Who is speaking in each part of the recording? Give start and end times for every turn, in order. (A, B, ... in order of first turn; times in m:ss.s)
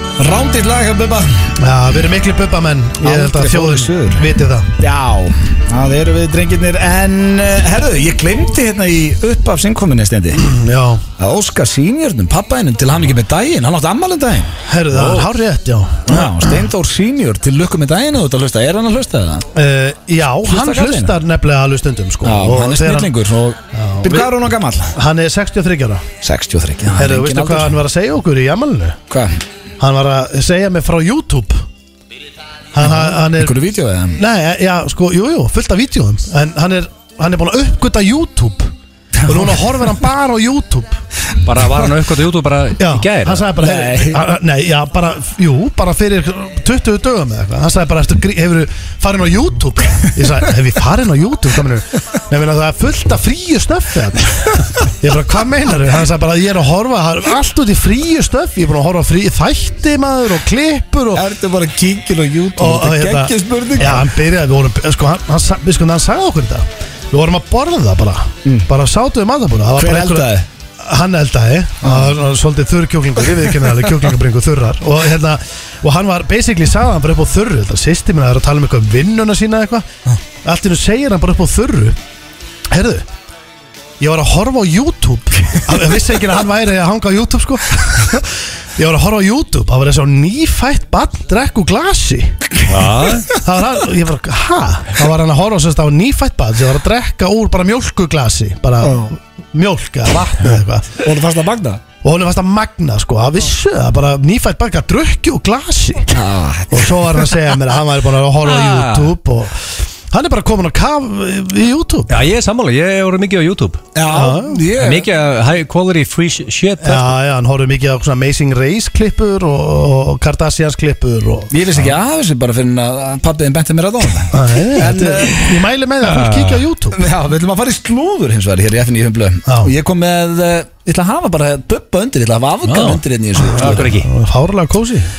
0:00.2-0:01.5 A
0:01.6-0:04.7 B
0:03.0-0:04.2 A
0:04.8-0:10.5 A
0:10.4-0:11.0 B
0:11.2-0:15.1 A
0:14.6-0:16.6 B
0:16.1-0:19.5 A
0:19.5-0:23.1 B
0:20.4-0:21.2 A
0:22.2-0:24.9 A
0:23.7-0:24.3 B
0:24.9-0:26.0 B
0:26.2-0:27.8 A
0:26.9-0:29.0 B
0:29.1-0:29.4 A
0:29.8-0:31.6 B
0:32.7-0:33.6 B
0:32.8-0:34.2 A
0:34.2-0:38.7 B
0:39.2-0:39.7 A
0:39.2-0:41.0 B
0:41.4-0:43.5 C
0:42.8-1:01.2 B
0:43.6-0:44.2 A
1:01.1-1:04.1 A
1:02.6-1:19.8 B
1:09.7-1:10.4 A
1:11.8-1:12.1 A
1:20.4-1:22.0 B
1:22.7-1:23.0 B
1:24.0-1:41.0 B
1:32.7-1:33.3 C
1:38.8-1:39.1 A
1:41.0-1:41.8 A
1:42.0-1:52.2 B
1:46.1-1:47.3 A
1:48.4-1:49.1 C
1:52.1-1:53.8 C
1:53.9-1:55.1 A
1:54.1-1:54.6 B
1:54.7-1:57.1 C
1:56.8-2:01.7 B
2:01.5-2:05.4 A
2:04.3-2:07.0 B
2:06.0-2:06.6 C
2:06.9-2:13.8 A
2:09.4-2:09.7 B
2:12.6-2:14.1 C
2:13.5-2:15.1 B